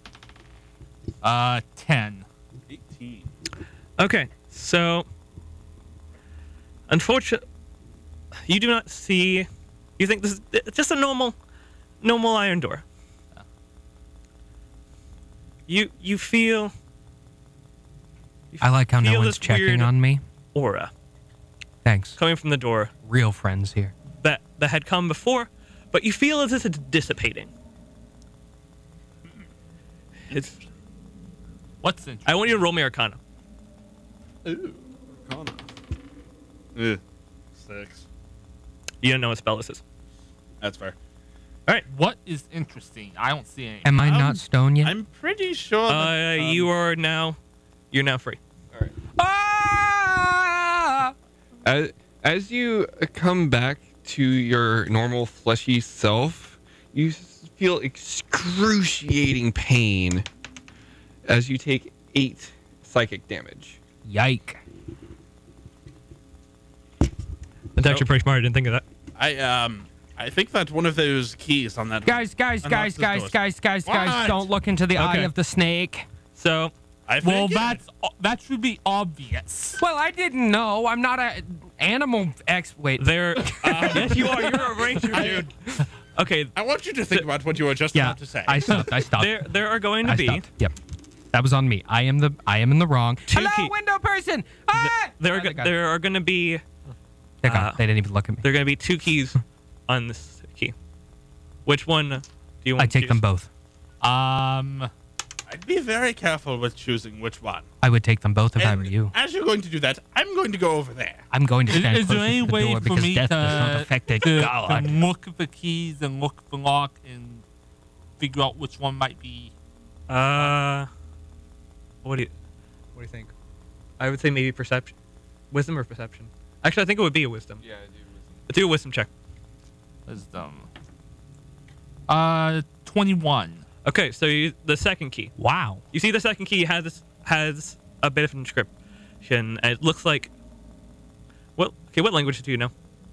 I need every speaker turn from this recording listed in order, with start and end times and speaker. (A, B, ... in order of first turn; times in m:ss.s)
0:01.2-0:02.3 A
0:02.7-0:03.3 B
0:04.0-0:05.1 C
0:06.9-0:07.4 C
0:08.5-0:09.5 C
0:10.0-0:11.4 C
0:12.0-0:12.8 C
0:15.7-0:16.7 C
0:18.5-0:19.9 C
0:18.6-0:20.2 D
0:20.5-0:20.9 C
0:21.8-0:22.2 D
0:22.2-0:22.9 C
0:23.0-0:23.9 D
0:24.2-0:27.5 C
0:30.3-0:30.6 C
0:31.8-0:32.6 A
0:32.3-0:33.2 C
0:34.4-0:35.7 B
0:36.8-0:37.0 B
0:37.6-0:38.1 B
0:39.0-0:39.8 C
0:40.6-0:41.0 B
0:41.9-0:44.0 A
0:43.8-0:45.0 D
0:44.0-0:46.7 B
0:45.9-0:47.4 C
0:47.9-0:48.4 C
0:49.2-0:51.1 D
0:51.6-1:00.3 E
1:01.3-1:03.8 E
1:04.0-1:04.6 D
1:07.8-1:08.8 C
1:07.8-1:08.1 B
1:09.2-1:14.5 B
1:12.0-1:16.1 D
1:15.0-1:15.3 C
1:16.4-1:16.7 C
1:17.1-1:17.8 B
1:17.2-1:19.8 A
1:19.8-1:24.2 D
1:23.0-1:25.5 C
1:23.6-1:25.5 B
1:26.2-1:26.6 C
1:26.6-1:28.9 B
1:27.9-1:30.8 D
1:29.1-1:30.5 C
1:31.3-1:35.8 D
1:33.3-1:33.7 C
1:34.7-1:36.6 C
1:37.4-1:38.4 D
1:37.4-1:37.8 C
1:38.4-1:40.7 C
1:41.7-1:43.2 C
1:42.8-1:43.5 D
1:44.0-1:44.9 A
1:45.5-1:47.7 B
1:47.8-1:49.1 D
1:48.6-1:51.2 B
1:51.3-1:55.0 D
1:51.7-1:57.4 A
1:58.2-1:59.5 A
2:00.1-2:00.9 C
2:02.0-2:02.3 C
2:03.0-2:03.3 C
2:04.0-2:04.9 C
2:05.5-2:07.6 C
2:07.6-2:08.4 E
2:08.5-2:09.1 C
2:10.1-2:10.7 A
2:12.1-2:13.6 A
2:13.8-2:15.3 C
2:15.4-2:15.8 D
2:15.9-2:18.7 C
2:19.2-2:20.3 C
2:21.6-2:22.7 C